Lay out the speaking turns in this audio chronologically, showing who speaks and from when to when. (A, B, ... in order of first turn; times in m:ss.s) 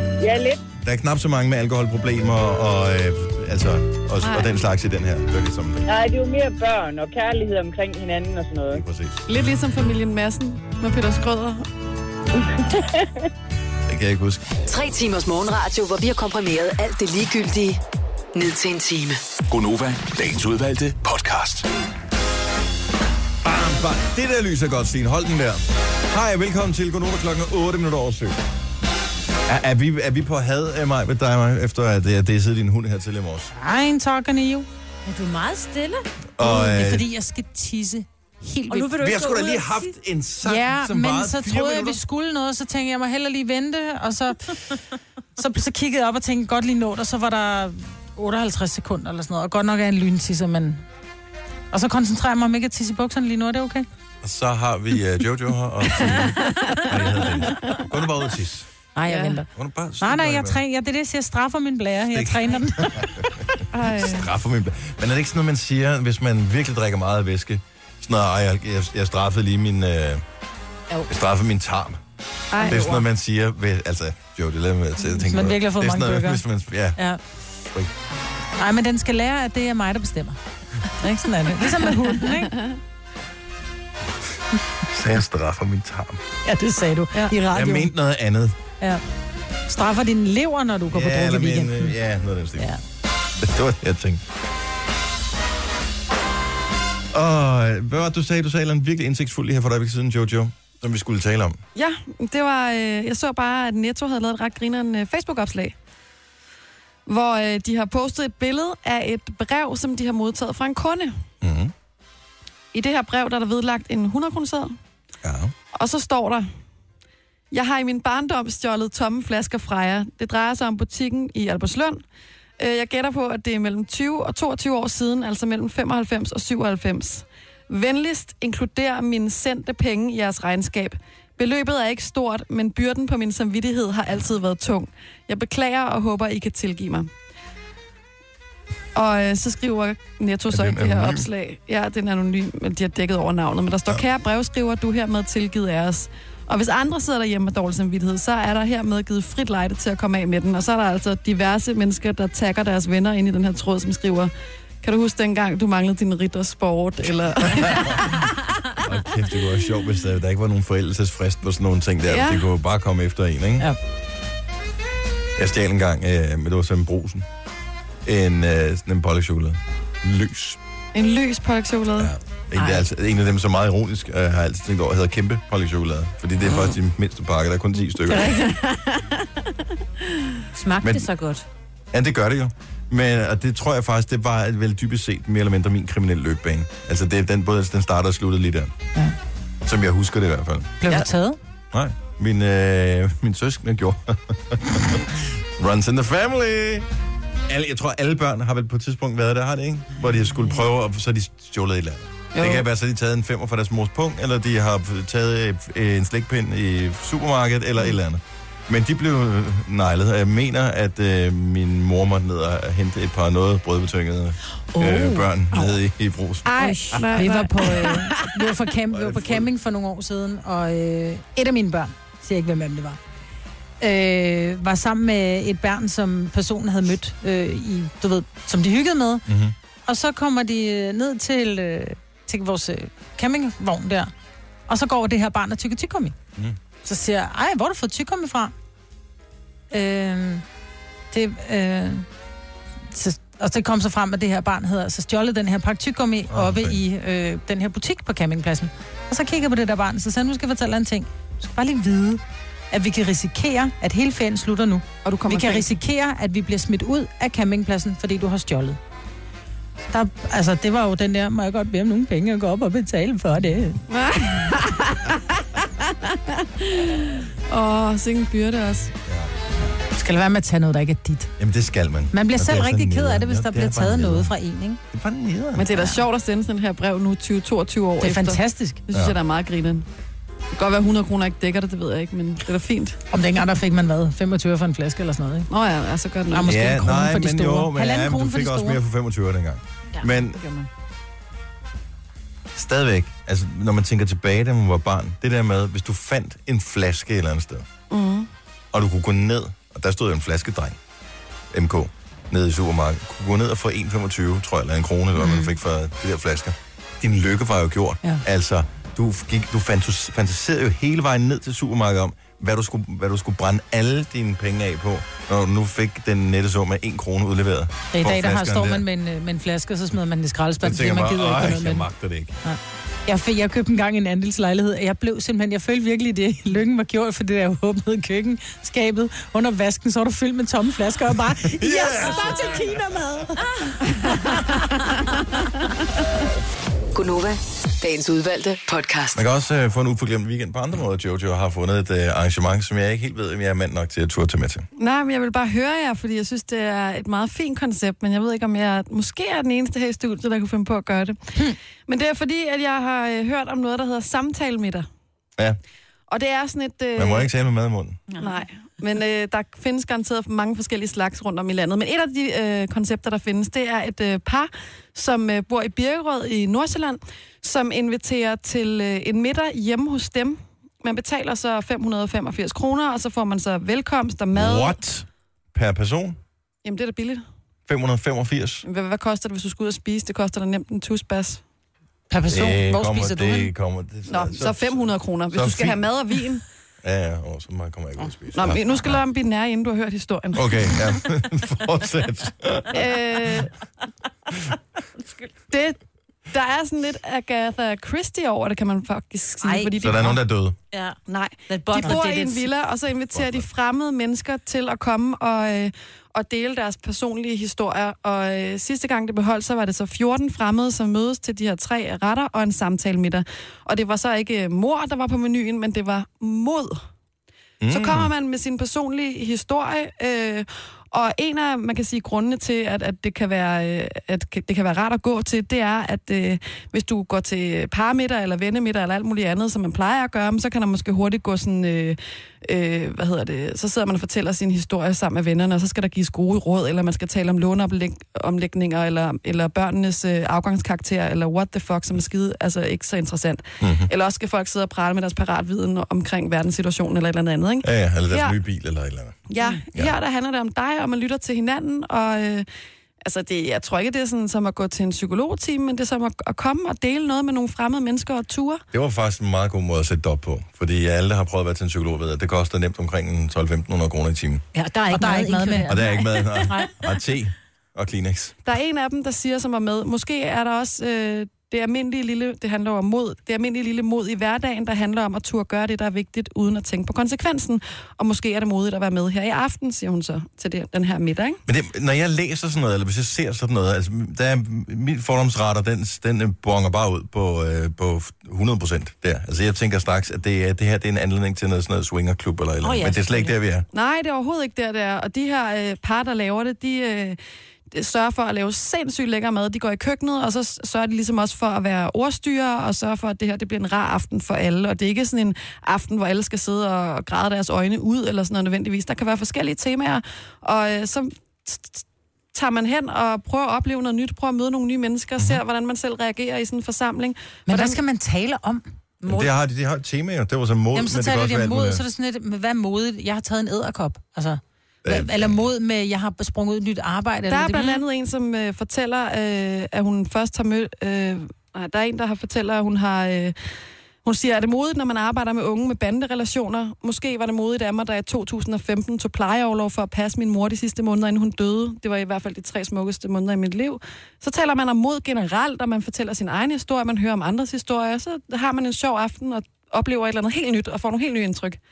0:00.2-0:00.6 A
0:00.8-0:05.9 B
0:04.2-0:04.6 C
0:05.9-0:08.8 A
0:08.7-0:09.2 B
0:09.3-0:11.6 C
0:13.9-0:14.4 B
0:14.7-0:17.8 D
0:18.3-0:19.2 D
0:19.5-0:21.7 E
0:23.4-0:28.4 B
0:29.5-0:33.5 B
0:33.6-0:34.7 F
0:35.0-0:36.0 G
0:36.4-0:37.1 B
0:36.4-0:39.0 F
0:38.7-0:39.9 G
0:39.0-0:42.0 B
0:40.4-0:44.8 F
0:45.4-0:50.8 F
0:51.7-0:53.9 F
0:54.2-0:58.7 B
0:57.6-0:57.9 C
0:59.0-0:59.4 F
0:59.1-0:59.4 C
0:59.6-1:00.6 B
1:00.0-1:03.1 F
1:02.1-1:10.2 B
1:03.7-1:04.3 C
1:11.1-1:12.0 B
1:12.5-1:13.1 C
1:12.6-1:17.0 B
1:15.2-1:16.4 F
1:18.6-1:20.4 F
1:21.0-1:22.6 F
1:22.2-1:22.8 C
1:24.8-1:26.2 B
1:26.4-1:27.9 F
1:27.4-1:28.6 B
1:29.7-1:31.9 F
1:30.9-1:32.7 B
1:33.4-1:34.2 B
1:37.1-1:41.6 B
1:41.8-1:45.8 C
1:47.1-1:51.1 C
1:51.4-1:51.7 B
1:52.7-1:54.8 C
1:55.2-1:55.5 B
1:55.7-1:56.5 C
1:57.5-2:02.0 C
2:02.6-2:17.1 C
2:18.9-2:34.3 C
2:20.5-2:21.3 B
2:34.8-2:38.3 C
2:37.5-2:38.1 B
2:38.8-2:43.7 B
2:42.1-2:42.4 C
2:45.4-2:47.3 B
2:48.0-2:50.6 B
2:50.9-2:52.1 C
2:52.0-2:58.5 B
2:58.1-2:58.4 G
3:00.5-3:01.4 G
3:00.8-3:01.1 B
3:01.9-3:08.7 B
3:09.6-3:11.1 B
3:10.8-3:11.4 F
3:11.7-3:16.9 B
3:17.5-3:37.3 B
3:22.4-3:22.6 C
3:34.8-3:35.1 F
3:36.4-3:38.3 C
3:37.1-3:43.0 F
3:38.9-3:39.5 B
3:43.8-3:49.3 F
3:49.3-3:49.6 B
3:49.9-3:54.1 F
3:54.7-3:56.2 F
3:56.8-3:58.5 F
3:59.7-4:00.4 F
4:01.1-4:02.1 F
4:02.9-4:18.8 F
4:06.3-4:06.8 B
4:15.0-4:15.7 C
4:19.9-4:23.8 F
4:23.9-4:28.9 C
4:29.1-4:29.7 B
4:29.9-4:31.3 F
4:31.4-4:34.3 B
4:32.1-4:34.8 F
4:34.9-4:35.7 B
4:35.6-4:39.9 C
4:38.0-4:38.8 F
4:38.9-4:39.2 B
4:40.5-4:43.0 C
4:43.1-4:45.5 F
4:45.5-4:46.6 C
4:46.3-4:48.8 F
4:46.5-4:50.4 B
4:50.0-4:50.7 G
4:52.5-4:57.7 B
4:57.9-4:58.3 C
4:58.7-5:00.8 B
5:01.5-5:18.8 B
5:05.2-5:05.5 F
5:17.9-5:21.9 F
5:20.6-5:22.4 B
5:22.4-5:33.5 F
5:31.4-5:32.7 B
5:32.0-5:32.5 G
5:36.9-5:39.2 D
5:39.1-5:44.7 B
5:44.8-5:54.9 C
5:56.1-5:57.3 C
5:57.0-5:58.0 B
5:58.1-5:58.4 G
5:58.2-6:14.8 C
6:14.3-6:16.2 B
6:16.6-6:17.2 C
6:17.7-6:18.6 B
6:18.6-6:21.4 C
6:22.1-6:23.5 F
6:22.3-6:25.9 B
6:24.1-6:26.4 C
6:26.8-6:29.0 B
6:28.3-6:30.7 C
6:30.3-6:33.4 B
6:32.7-6:33.5 C
6:34.3-6:34.6 B
6:35.5-6:35.8 C
6:36.3-6:40.2 C
6:39.4-6:40.1 G
6:39.8-6:40.6 B
6:40.7-6:41.0 G
6:41.1-6:56.8 C
6:41.5-6:42.5 G
6:43.1-6:43.5 B
6:57.6-6:58.1 B
6:57.7-7:28.4 C
7:23.6-7:23.9 B
7:27.6-7:30.0 B
7:29.3-7:32.5 C
7:33.0-7:38.6 C
7:38.7-7:44.4 B
7:44.5-7:46.7 G
7:44.9-7:45.8 F
7:45.7-7:48.4 B
7:48.4-8:01.4 C
8:01.5-8:13.7 B
8:12.6-8:13.4 G
8:13.7-8:17.2 C
8:17.7-8:37.8 C
8:35.2-8:35.4 B
8:37.5-8:38.7 F
8:39.1-8:41.8 B
8:40.7-8:47.8 F
8:44.8-8:45.4 B
8:47.3-8:53.4 C
8:54.0-9:11.6 C